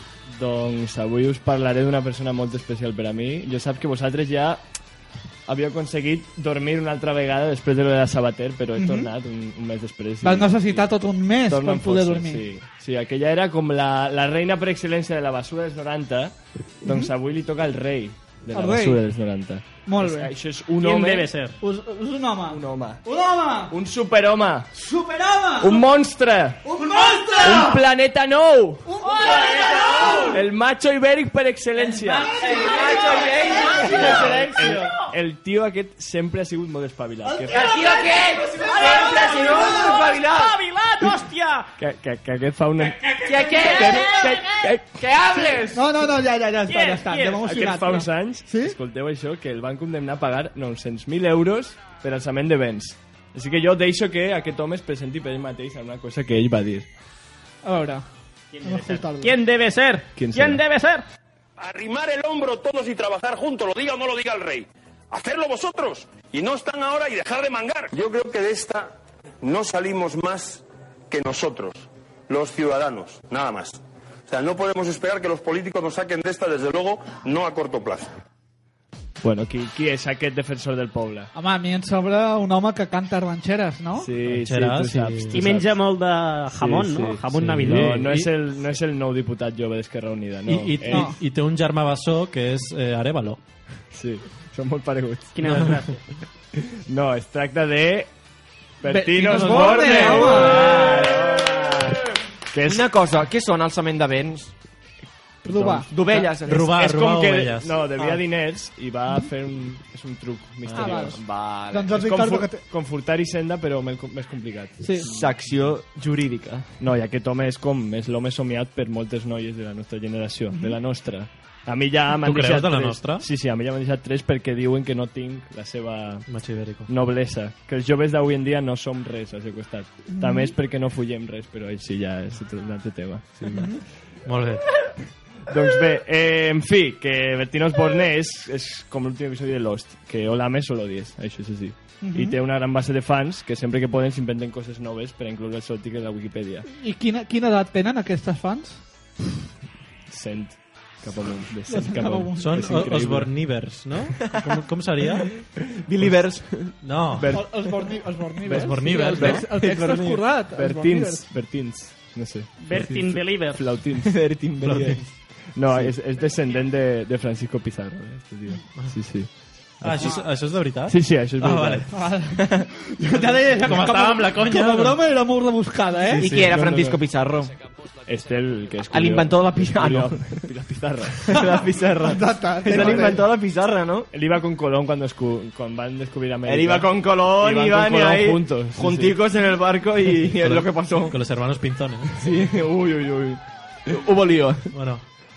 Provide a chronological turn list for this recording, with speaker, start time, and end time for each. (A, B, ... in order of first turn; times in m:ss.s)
0:00.3-0:04.6 A
0:05.5-0:21.3 A
0:08.8-0:09.1 B
0:10.2-0:12.4 B
0:18.5-0:19.0 B
0:19.9-0:20.3 B
0:20.8-0:21.6 C
0:21.6-0:23.7 B
0:22.5-0:23.1 A
0:23.7-0:24.7 A
0:24.8-0:25.8 B
0:25.6-0:26.7 A
0:26.6-0:27.8 B
0:27.4-0:28.9 A
0:28.9-0:30.4 B
0:29.3-0:30.2 C
0:30.1-0:32.6 A
0:32.1-0:34.4 B
0:32.6-0:34.8 C
0:32.6-0:34.7 D
0:34.3-0:37.8 A
0:37.3-0:37.7 B
0:37.6-0:40.5 D
0:37.8-0:41.7 C
0:41.8-0:45.0 A
0:43.3-0:45.8 D
0:43.3-0:44.7 C
0:45.7-0:48.8 B
0:46.7-0:47.5 C
0:47.4-0:56.9 A
0:57.6-0:58.0 B
0:58.5-1:01.1 C
0:58.6-0:59.4 B
1:00.2-1:00.6 A
1:01.6-1:18.1 E
1:19.2-1:21.3 A
1:21.3-1:24.1 B
1:24.0-1:31.1 A
1:24.3-1:25.4 F
1:25.3-1:28.1 C
1:27.3-1:28.4 F
1:30.5-1:33.4 F
1:30.9-1:31.2 B
1:33.9-1:36.0 A
1:35.4-1:36.0 C
1:35.4-1:35.8 F
1:36.6-1:38.1 A
1:38.8-1:41.9 A
1:38.9-1:40.8 B
1:40.7-1:41.3 F
1:42.5-1:42.9 A
1:42.7-1:44.5 D
1:45.4-1:45.9 B
1:45.5-1:51.4 A
1:45.8-1:46.8 D
1:46.4-1:47.8 F
1:50.7-1:52.0 D
1:50.7-1:52.6 B
1:52.0-1:55.4 A
1:54.8-1:55.1 B
1:55.0-1:56.8 D
1:56.8-2:06.3 A
2:00.5-2:00.8 B
2:02.2-2:03.3 F
2:06.3-2:06.9 F
2:06.9-2:13.8 A
2:10.1-2:10.5 B
2:14.3-2:14.7 F
2:15.5-2:26.7 A
2:22.0-2:22.4 B
2:26.7-2:28.8 B
2:30.1-2:33.4 A
2:31.7-2:32.8 B
2:32.4-2:35.3 F
2:34.2-2:36.9 D
2:36.8-2:37.4 F
2:37.1-2:37.7 A
2:37.3-2:41.3 B
2:37.5-2:38.2 D
2:38.5-2:39.0 A
2:38.5-2:39.5 F
2:39.1-2:40.3 D
2:40.4-2:44.6 A
2:42.6-2:43.9 C
2:44.0-2:45.9 D
2:44.6-2:45.1 F
2:45.1-2:50.3 A
2:48.8-2:49.2 F
2:49.8-2:51.9 F
2:50.8-2:52.2 A
2:51.9-2:56.3 B
2:52.4-2:52.7 D
2:53.1-2:55.1 F
2:56.2-2:57.5 D
2:56.2-2:56.5 F
2:56.5-2:57.0 A
2:58.0-3:01.4 A
2:58.9-3:00.4 D
3:01.3-3:04.1 D
3:02.0-3:03.2 B
3:02.6-3:03.3 A
3:04.1-3:09.2 A
3:06.5-3:11.2 D
3:10.1-3:12.3 F
3:12.1-3:14.7 D
3:14.7-3:15.1 F